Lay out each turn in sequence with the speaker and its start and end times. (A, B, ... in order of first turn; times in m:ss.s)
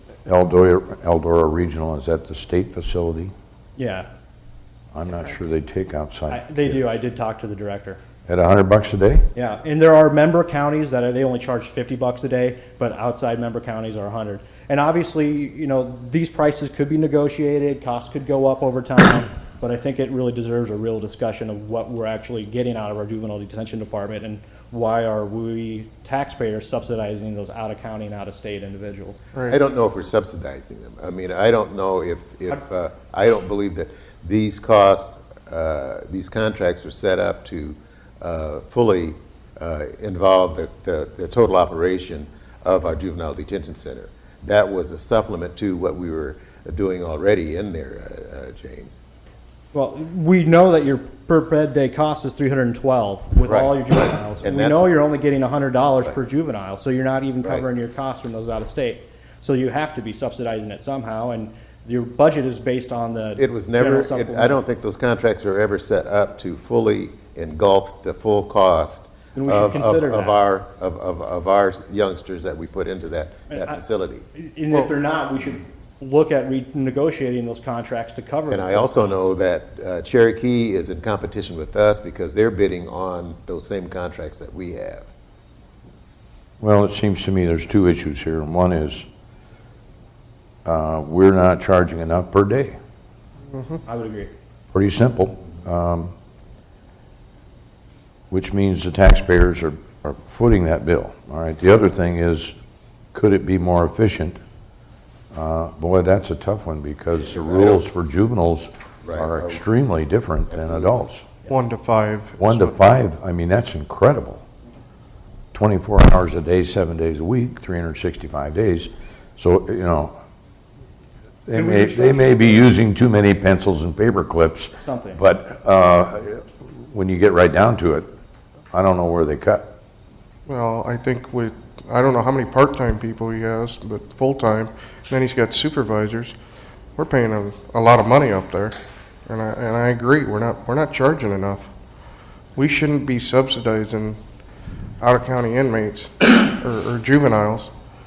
0:00.2-0:03.3 A
0:03.8-0:04.1 B
0:04.9-0:07.0 A
0:06.3-0:08.0 B
0:08.3-0:09.3 A
0:09.4-0:29.2 B
0:29.5-0:49.0 C
0:49.7-1:04.6 B
0:53.5-0:54.9 C
1:03.4-1:14.3 C
1:09.4-1:10.4 B
1:13.5-1:13.8 B
1:14.4-1:18.9 B
1:18.5-1:25.1 C
1:26.6-1:29.1 A
1:30.6-1:32.8 A
1:33.5-1:33.8 D
1:33.9-1:34.3 B
1:34.7-1:36.1 A
1:38.3-1:42.5 A
1:43.1-1:44.4 A
1:45.3-1:51.3 A
1:47.3-1:47.8 C
1:49.0-1:49.6 C
1:50.5-1:51.1 C
1:51.5-1:52.8 D
1:52.4-1:54.4 A
1:55.5-2:00.1 A
2:01.5-2:08.1 A
2:01.5-2:02.6 B
2:04.8-2:05.2 B
2:08.7-2:09.7 A
2:10.5-2:16.4 D
2:17.0-2:21.7 D
2:22.6-2:24.2 D
2:25.0-2:27.7 D